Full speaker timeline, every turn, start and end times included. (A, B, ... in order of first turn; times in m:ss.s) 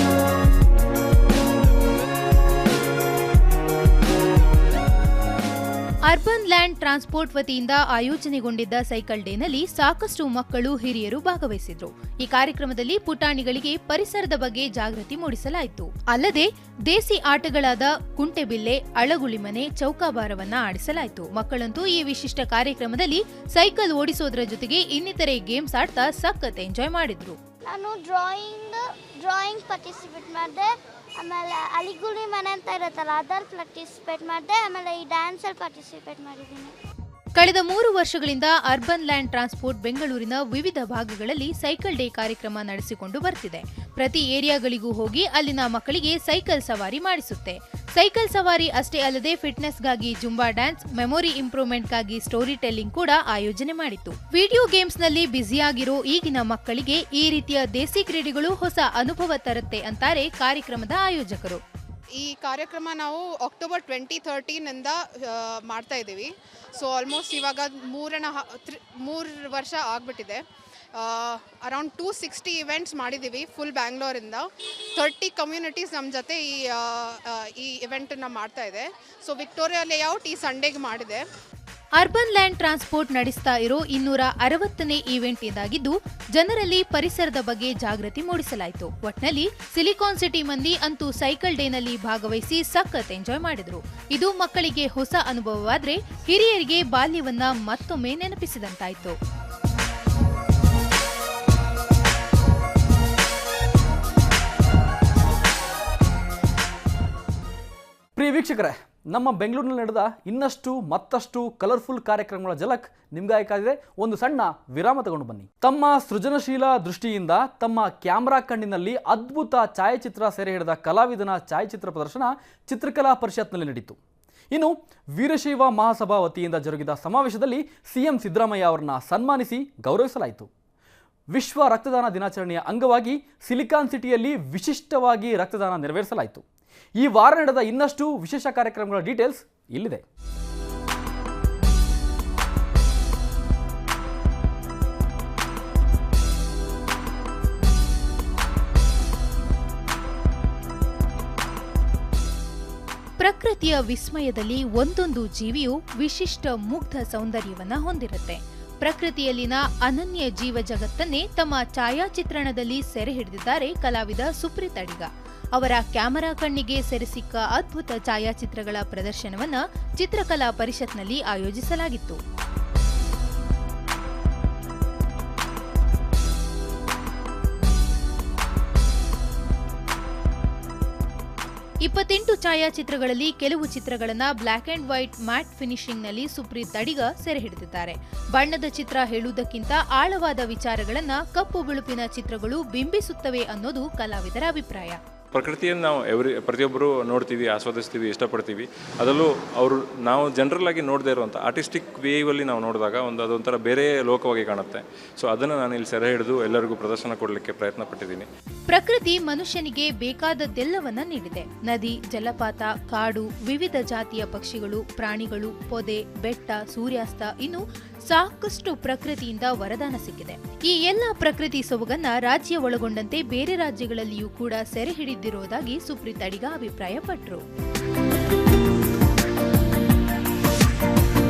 0:06.1-0:27.4 A
0:27.6-0:30.7 B
0:31.2-0:36.7 B
0:37.4-1:01.6 A
1:02.1-1:10.4 C
1:10.9-1:21.2 C
1:22.0-1:39.2 A
1:48.2-2:04.0 D
2:04.5-2:10.5 D
2:11.3-2:16.4 D
2:17.0-2:20.0 D
2:33.2-2:52.2 A
3:01.8-3:15.0 A
3:15.3-3:28.3 E
3:28.7-3:47.4 A